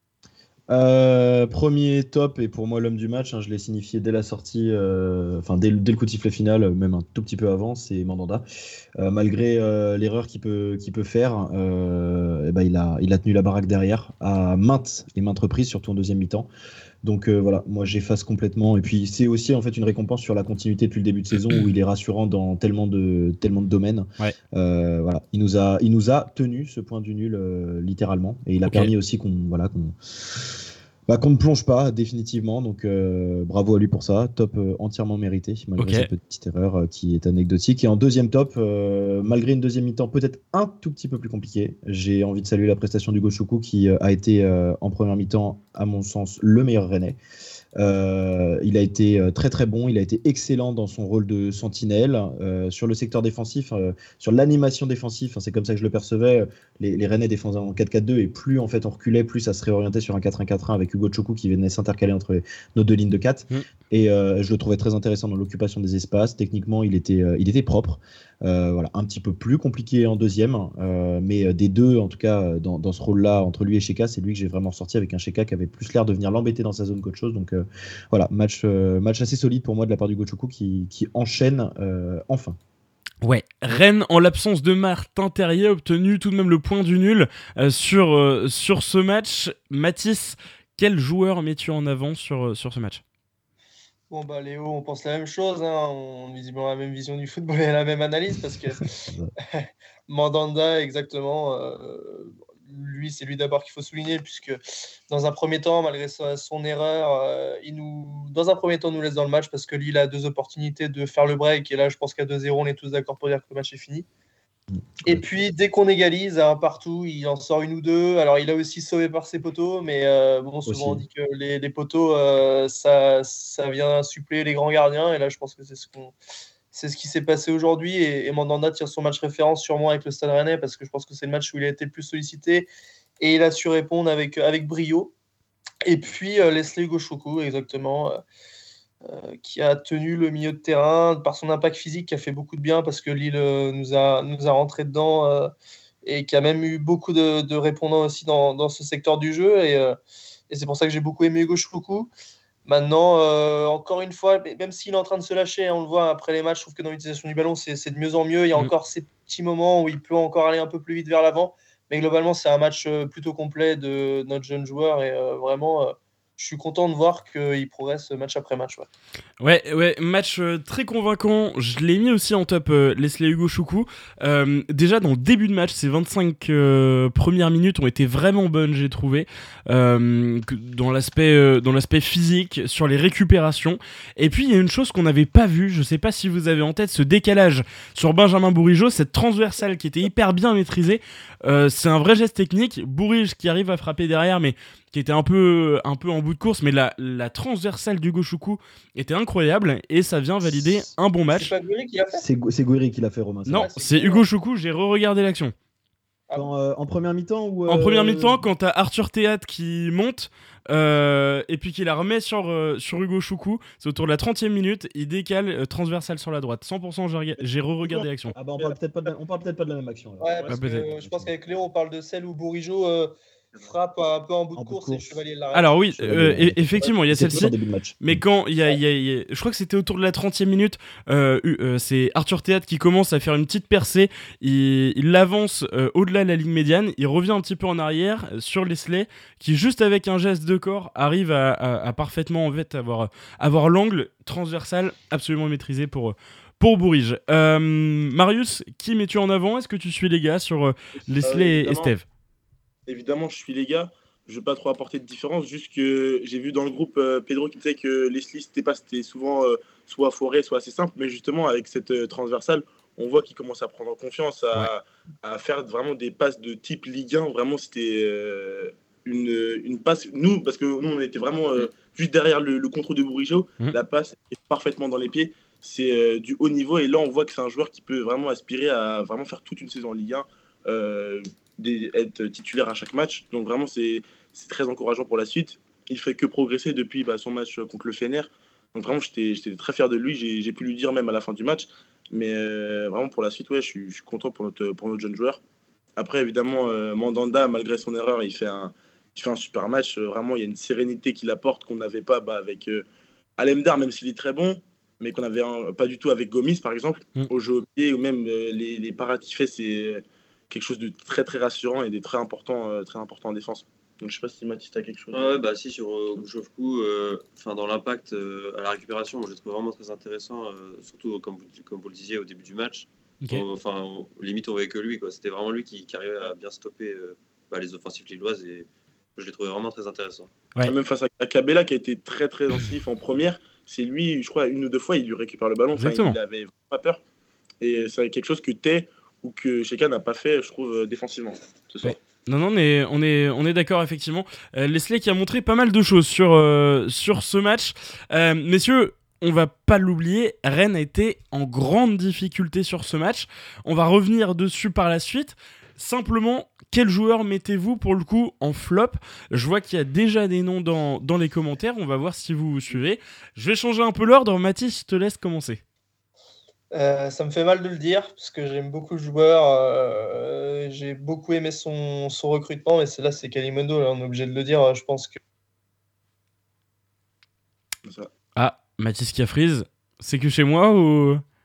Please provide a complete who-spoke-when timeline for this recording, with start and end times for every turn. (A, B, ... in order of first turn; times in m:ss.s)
0:00.7-0:08.4 A
0:09.0-0:16.5 A
0:17.0-0:47.2 A
0:28.7-0:28.9 B
0:35.8-0:36.1 B
0:47.8-1:22.6 A
1:23.2-1:33.0 B
1:34.1-1:38.9 C
1:39.0-1:39.3 A
1:39.5-1:44.6 C
1:45.1-1:54.1 C
1:55.0-2:06.1 C
2:00.7-2:01.0 A
2:06.7-2:12.7 C
2:13.2-2:15.1 C
2:15.8-2:18.2 C
2:19.0-2:25.5 C
2:26.0-2:30.0 C
2:30.5-2:32.1 C
2:32.7-2:48.9 C
2:49.4-3:21.5 B
3:20.5-3:20.9 A
3:21.3-3:22.2 C
3:22.1-3:23.7 A
3:23.5-3:25.5 B
3:23.6-3:24.3 C
3:26.3-3:28.4 A
3:27.7-3:38.4 B
3:37.8-3:38.8 D
3:38.4-3:41.3 A
3:40.2-3:45.8 C
3:40.5-3:40.9 B
3:44.6-3:45.2 A
3:45.5-4:12.0 B
3:46.0-3:48.2 A
4:11.1-4:11.9 D
4:12.9-4:55.4 D
4:56.0-5:02.8 D
5:03.4-5:15.4 D
5:15.1-5:30.3 E
5:30.6-5:37.0 D
5:35.8-5:36.2 B
5:37.6-5:42.0 D
5:41.8-6:05.6 B
6:06.7-6:15.2 C
6:17.8-6:18.1 D
6:18.4-6:21.2 B